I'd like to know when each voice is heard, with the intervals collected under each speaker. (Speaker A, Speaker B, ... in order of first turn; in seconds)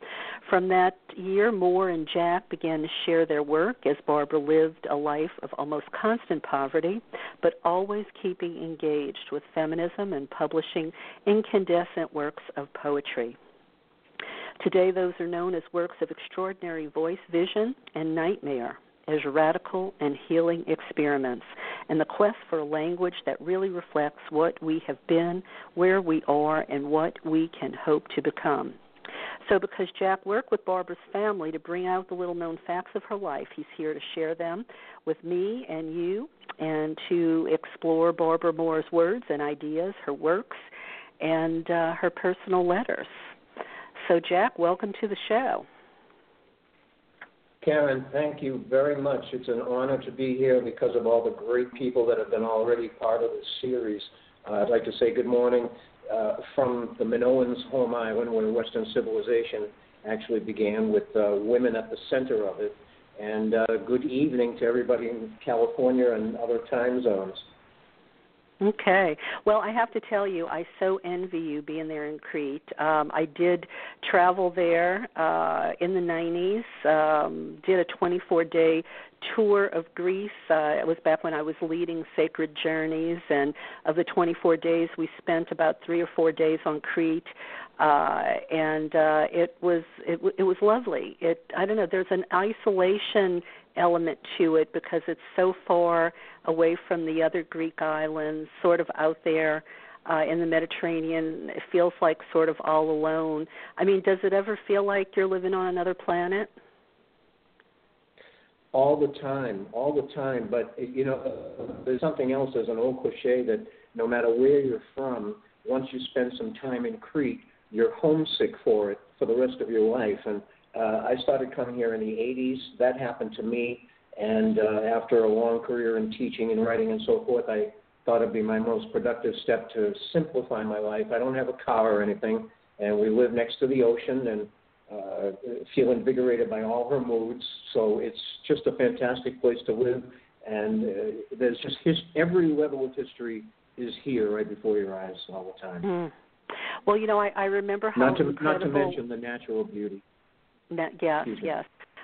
Speaker A: 0.4-13.4, 14.6-28.8, 29.4-40.6, 41.2-43.1, 44.0-45.7, 68.6-106.5, 145.8-146.1, 146.9-149.0, 150.7-151.7
Speaker B: 47.6-67.5, 108.7-145.9, 148.0-150.0, 151.2-151.5